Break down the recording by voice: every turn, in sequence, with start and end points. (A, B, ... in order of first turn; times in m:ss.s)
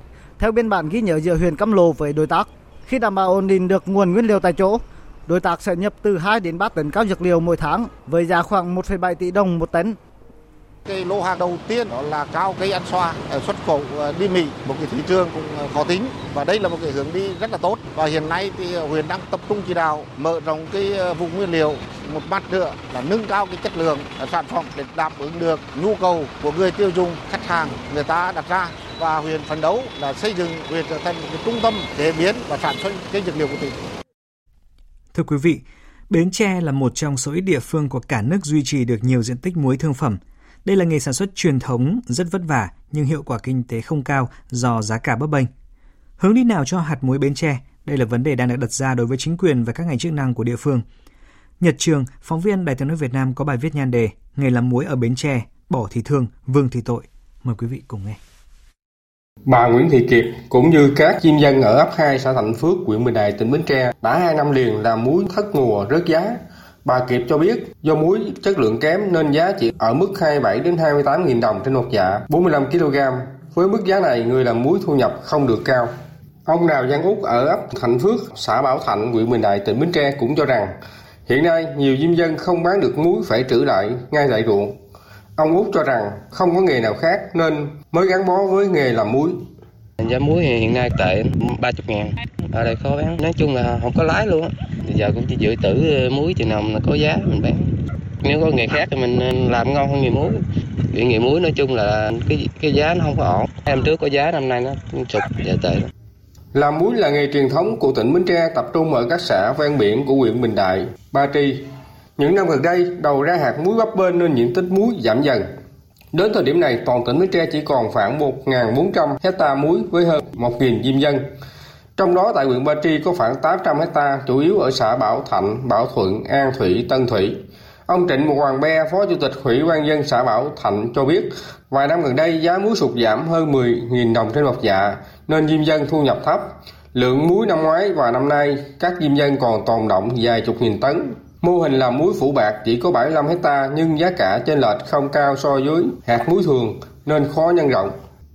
0:00.4-0:10.0 A
0:10.8-0:33.8 B
0:35.1-0:45.5 C
0:46.2-0:50.8 C
0:51.6-0:58.2 C
0:59.5-1:15.9 D
1:16.4-1:20.7 D
1:21.3-1:24.8 D
1:25.4-1:29.4 D
1:30.0-1:37.7 E
1:38.2-1:40.4 E
1:40.9-1:45.9 E
1:46.5-1:51.6 D
1:52.2-1:55.4 D
1:56.1-2:01.2 D
2:02.0-2:28.0 D